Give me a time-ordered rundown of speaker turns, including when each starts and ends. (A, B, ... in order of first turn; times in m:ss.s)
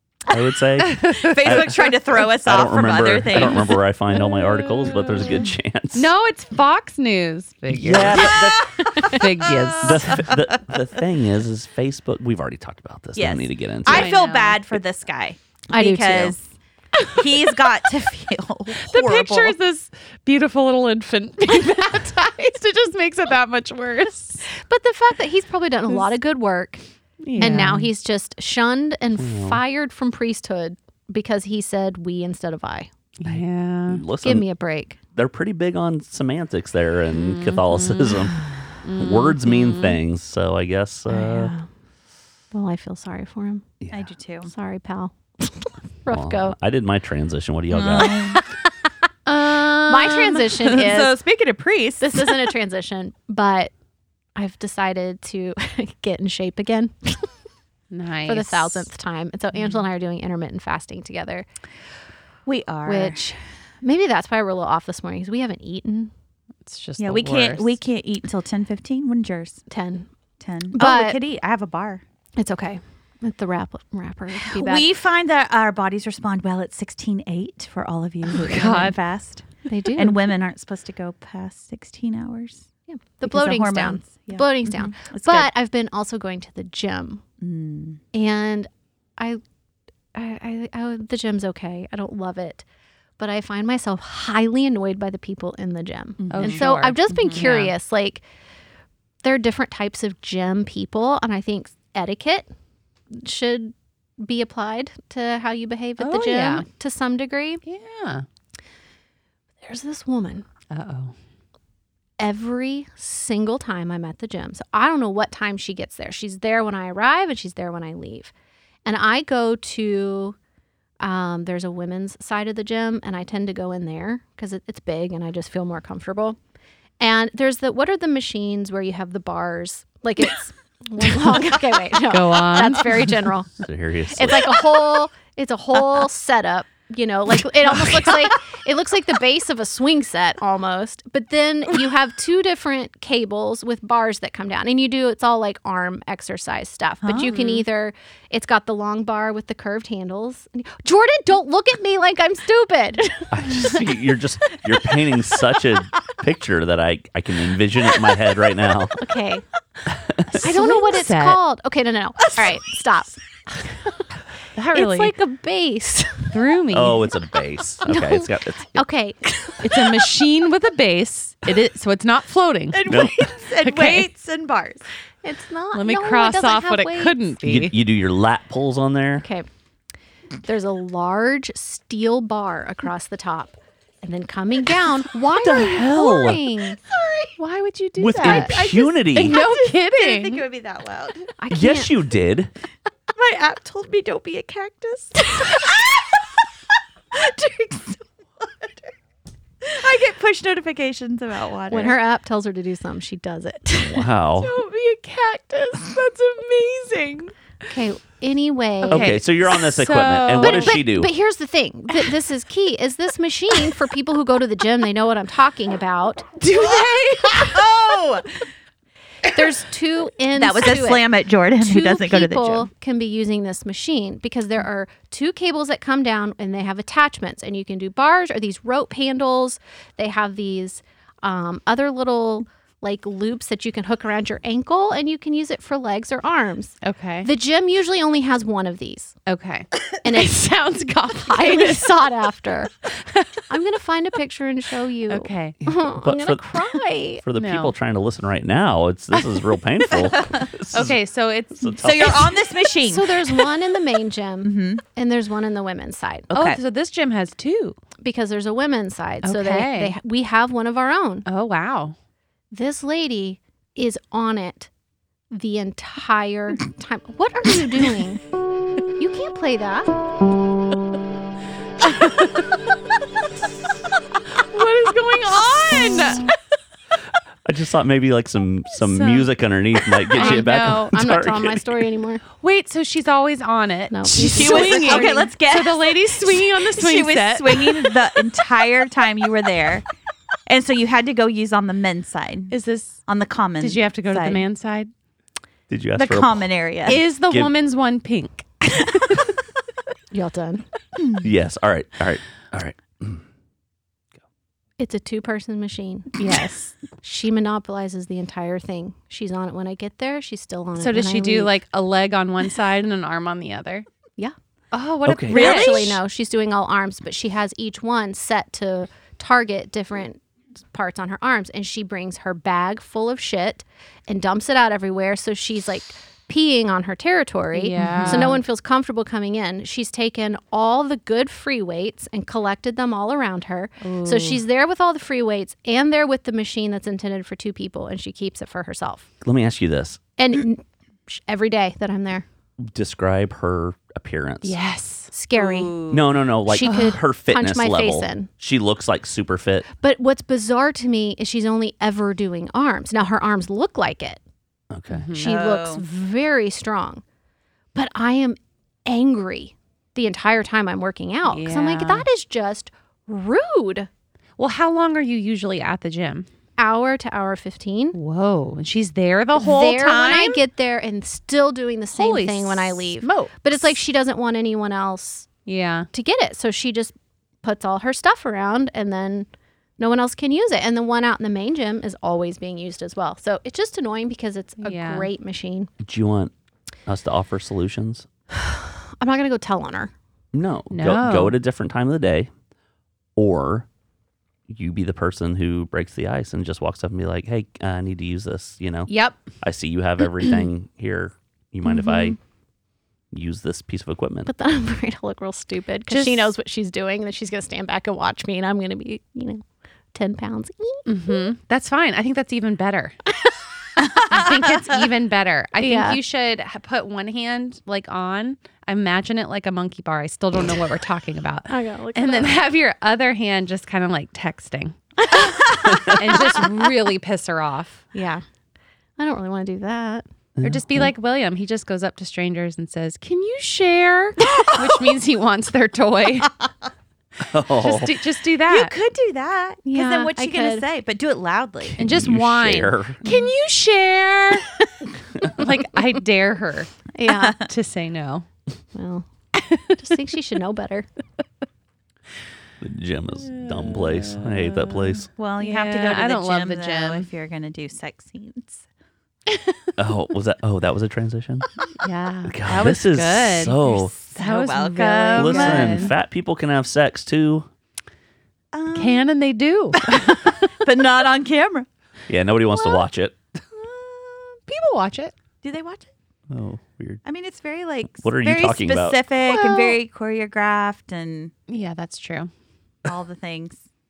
0:00.3-0:06.1 A
0:00.9-0:01.3 B
0:01.2-0:03.8 C
0:05.2-0:08.4 B
0:07.7-0:08.9 A
0:08.2-0:10.5 C
0:08.9-0:10.2 B
0:09.8-0:14.1 A
0:13.2-0:16.4 C
0:13.8-0:14.6 B
0:15.7-0:16.4 D
0:17.1-0:19.6 C
0:18.8-0:24.4 B
0:24.6-0:26.8 D
0:27.2-0:27.9 B
0:27.4-0:32.9 D
0:29.2-0:29.6 A
0:33.2-0:34.0 B
0:33.2-0:34.4 A
0:34.2-0:35.0 D
0:35.1-0:38.4 A
0:37.1-0:40.0 B
0:39.0-0:41.5 A
0:41.1-0:41.7 D
0:42.5-0:43.7 D
0:43.9-0:44.5 C
0:44.5-0:46.5 D
0:46.1-0:48.4 A
0:47.7-0:48.4 C
0:49.2-0:50.7 B
0:49.6-0:51.2 D
0:50.5-0:52.5 C
0:52.0-0:53.7 D
0:54.4-0:57.3 D
0:57.9-0:58.9 B
0:58.3-1:01.5 D
1:02.4-1:03.3 C
1:02.8-1:06.1 D
1:06.6-1:07.8 B
1:07.0-1:09.6 C
1:09.7-1:10.1 D
1:10.4-1:12.0 C
1:10.7-1:11.2 D
1:12.4-1:14.9 D
1:14.3-1:22.7 C
1:18.3-1:19.0 B
1:19.7-1:20.2 D
1:22.9-1:27.2 D
1:23.2-1:25.5 C
1:27.4-1:28.0 C
1:28.1-1:29.4 D
1:30.1-1:32.6 D
1:33.2-1:38.2 D
1:36.2-1:37.5 C
1:36.3-1:37.7 B
1:39.2-1:42.5 D
1:43.1-1:47.6 D
1:46.0-1:46.7 B
1:47.6-1:48.2 B
1:49.6-1:50.4 D
1:50.7-1:51.1 B
1:52.2-1:58.3 D
1:58.8-2:00.4 D
2:01.0-2:06.4 D
2:07.0-2:13.5 D
2:12.1-2:13.1 B
2:13.6-2:14.6 A
2:14.1-2:33.8 D
2:27.0-2:27.6 C
2:33.3-2:39.0 A
2:39.0-2:39.4 D
2:39.9-2:40.4 A
2:40.3-2:41.4 B
2:40.4-2:43.2 D
2:44.5-2:45.1 B
2:44.7-2:46.3 D
2:46.3-2:47.1 B
2:46.7-2:48.8 A
2:47.8-2:49.6 D
2:49.6-2:52.9 B
2:52.7-2:54.8 C
2:52.8-2:53.2 A
2:53.5-2:54.1 B
2:55.2-2:57.2 D
2:55.7-2:57.8 B
2:57.4-2:59.2 A
2:59.2-2:59.5 D
3:00.4-3:06.8 D
3:05.3-3:06.4 A
3:06.9-3:07.4 C
3:07.4-3:08.6 B
3:08.0-3:09.4 A
3:08.2-3:11.3 C
3:09.1-3:10.4 B
3:11.4-3:12.0 D
3:11.5-3:12.5 A
3:13.1-3:16.2 C
3:17.1-3:18.9 C
3:19.6-3:22.0 C
3:21.7-3:24.1 D
3:23.7-3:24.5 A
3:24.4-3:27.3 B
3:27.7-3:29.2 D
3:28.8-3:30.8 B
3:28.8-3:31.1 A
3:30.4-3:36.4 D
3:36.4-3:37.7 B
3:36.5-3:38.4 C
3:39.3-3:59.2 D
3:40.3-3:42.7 C
3:56.8-3:57.3 B
3:59.2-4:02.0 B
4:00.0-4:00.4 D
4:01.2-4:02.7 D
4:03.1-4:03.4 B
4:03.5-4:07.2 D
4:05.1-4:05.6 B
4:06.0-4:06.6 A
4:07.2-4:11.0 A
4:07.3-4:07.7 B
4:10.7-4:12.3 B
4:11.6-4:12.2 A
4:11.8-4:13.2 C
4:12.8-4:16.3 D
4:14.4-4:14.8 C
4:16.3-4:16.6 C
4:16.3-4:17.8 B
4:18.0-4:21.2 D
4:19.2-4:20.0 B
4:21.2-4:21.9 B
4:22.5-4:24.7 D
4:25.3-4:28.2 D
4:29.0-4:29.9 D
4:34.5-4:36.3 B
4:37.4-4:41.8 A
4:38.8-4:39.3 B
4:40.1-4:42.2 D
4:40.2-4:40.5 B
4:42.4-4:48.0 B
4:43.9-4:45.3 D
4:44.3-4:49.8 C
4:50.5-4:52.5 C
4:52.5-4:53.0 B
4:53.0-4:54.4 C
4:53.6-4:54.9 B
4:55.7-4:56.4 A
4:56.0-4:57.0 C
4:56.8-4:59.2 B
4:57.2-4:57.5 A
5:00.1-5:00.6 D
5:01.2-5:03.2 A
5:04.8-5:06.2 D
5:06.2-5:06.8 B
5:06.9-5:11.5 D
5:10.8-5:13.8 B
5:14.7-5:16.0 B
5:15.0-5:15.8 A
5:15.3-5:39.1 D
5:15.4-5:15.9 C
5:27.5-5:28.4 B
5:33.8-5:34.4 B
5:39.2-5:40.0 A
5:40.2-5:42.2 D
5:42.6-5:44.6 A
5:44.4-5:45.1 B
5:45.1-5:45.7 D
5:45.3-5:46.1 C
5:45.9-5:49.7 A
5:46.4-5:48.3 D
5:46.6-5:47.0 B
5:49.8-5:54.2 D
5:54.7-5:55.1 A
5:54.9-5:55.3 B
5:55.1-5:57.0 D
5:55.2-5:55.8 C
5:57.7-6:03.9 D
6:01.3-6:02.0 B
6:04.4-6:06.3 B
6:06.6-6:08.0 D
6:07.9-6:10.4 B
6:09.4-6:15.3 D
6:11.9-6:13.7 B
6:15.4-6:15.9 B
6:15.9-6:25.7 D
6:24.6-6:25.1 B
6:25.8-6:26.3 A
6:26.8-6:28.0 A
6:28.3-6:29.9 D
6:30.3-6:32.3 A
6:30.7-6:31.4 B
6:33.2-6:33.7 A
6:34.5-6:42.2 A
6:38.9-6:39.2 B
6:41.6-6:42.2 D
6:43.1-6:44.3 A
6:44.2-6:51.1 D
6:45.9-6:46.3 B
6:50.8-6:52.9 B
6:53.9-7:04.8 B
6:55.6-6:56.0 D
7:01.5-7:02.4 D
7:05.2-7:05.7 D
7:05.7-7:05.9 A
7:05.8-7:07.9 B
7:07.9-7:08.2 C
7:09.0-7:10.0 D
7:10.4-7:10.9 A
7:10.4-7:16.4 B
7:14.3-7:15.0 C
7:17.3-7:17.9 A
7:17.6-7:18.7 B
7:18.5-7:21.8 C
7:19.6-7:20.6 D
7:21.6-7:23.0 A
7:21.8-7:24.6 B
7:25.2-7:26.7 B
7:26.9-7:27.4 D
7:27.3-7:28.2 B
7:28.7-7:29.1 D
7:29.8-7:30.9 D
7:32.6-7:35.1 A
7:33.3-7:37.1 B
7:35.1-7:38.6 C
7:39.8-7:41.5 A
7:41.8-7:45.9 B
7:42.3-7:43.9 A
7:44.1-7:45.9 C
7:45.2-7:47.5 A
7:48.5-7:49.1 C
7:48.7-7:49.9 B
7:49.8-7:51.7 C
7:52.1-7:53.1 A
7:52.5-7:52.8 B
7:53.4-7:55.1 B
7:55.4-7:55.9 C
7:56.3-7:57.0 A
7:57.0-8:01.3 C
7:57.9-7:59.0 A
7:59.2-7:59.8 B
8:01.5-8:02.3 B
8:02.8-8:03.6 C